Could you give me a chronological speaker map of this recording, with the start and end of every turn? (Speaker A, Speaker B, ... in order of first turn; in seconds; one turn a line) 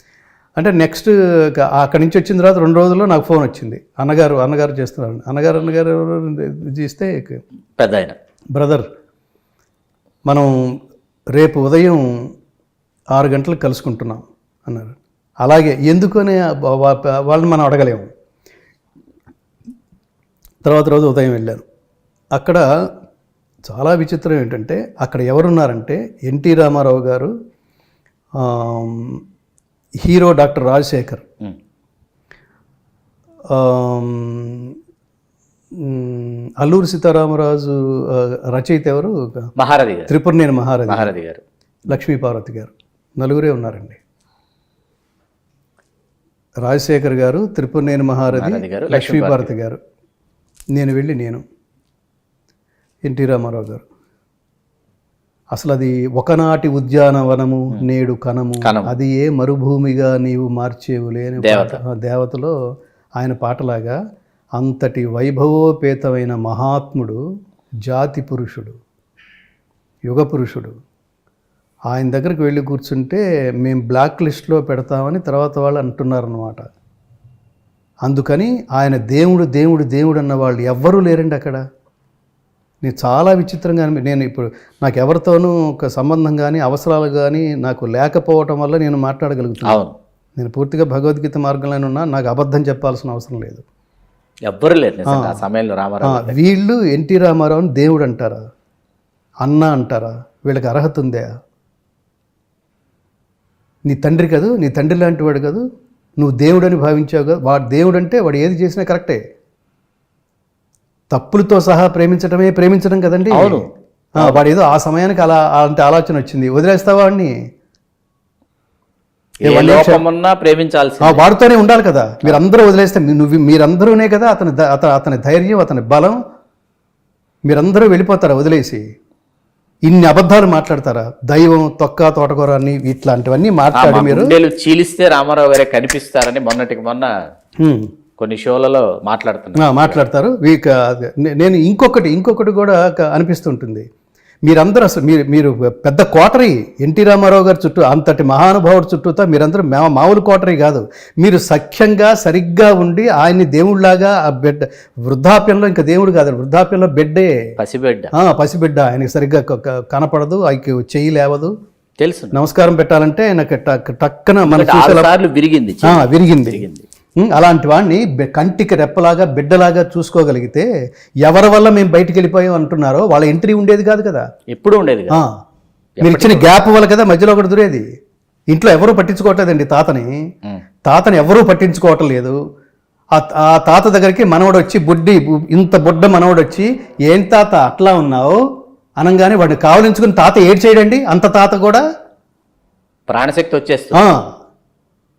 Speaker A: 0.6-7.4
Speaker B: 7.8-8.1
Speaker A: 8.5-8.8
Speaker A: 11.3-12.0
Speaker A: 13.1-18.1
Speaker A: 20.6-21.6
Speaker A: 22.3-22.6
Speaker A: 23.6-27.3
Speaker A: 28.4-29.2
Speaker A: 30.0-31.2
Speaker A: 33.5-34.7
Speaker A: 35.8-39.1
Speaker B: 39.6-40.1
Speaker A: 40.1-41.1
Speaker B: 40.9-41.4
Speaker A: 41.9-44.0
Speaker A: 46.6-49.8
Speaker B: 48.3-49.5
Speaker A: 50.7-51.4
Speaker A: 53.0-53.8
Speaker A: 55.5-62.5
Speaker B: 58.6-58.9
Speaker B: 61.4-61.8
Speaker A: 63.2-64.0
Speaker A: 64.6-67.2
Speaker A: 67.9-68.7
Speaker A: 70.0-70.7
Speaker A: 71.9-76.7
Speaker A: 78.0-81.6
Speaker A: 82.8-89.8
Speaker B: 89.6-89.9
Speaker A: 90.4-93.6
Speaker B: 94.5-96.4
Speaker A: 95.1-95.4
Speaker A: 96.0-98.4
Speaker A: 99.4-101.3
Speaker A: 103.8-105.6
Speaker A: 106.2-109.2
Speaker A: 111.1-113.6
Speaker B: 113.3-113.7
Speaker B: 114.2-114.4
Speaker A: 114.2-117.3
Speaker B: 119.4-121.2
Speaker A: 119.4-120.0
Speaker A: 121.0-126.2
Speaker A: 127.5-128.8
Speaker A: 129.8-134.3
Speaker B: 133.7-137.1
Speaker A: 137.6-137.9
Speaker B: 138.2-140.0
Speaker A: 139.6-143.8
Speaker A: 144.4-157.3
Speaker B: 157.6-158.1
Speaker A: 158.2-161.5
Speaker B: 162.0-162.4
Speaker A: 162.3-165.1
Speaker B: 164.4-166.8
Speaker A: 165.8-166.7
Speaker A: 167.2-170.7
Speaker A: 171.2-174.2
Speaker B: 174.5-175.2
Speaker B: 176.0-176.5
Speaker A: 176.0-177.8
Speaker A: 178.5-180.1
Speaker A: 180.8-182.3
Speaker A: 183.1-188.4
Speaker A: 189.0-191.8
Speaker B: 193.1-194.0
Speaker A: 193.9-194.2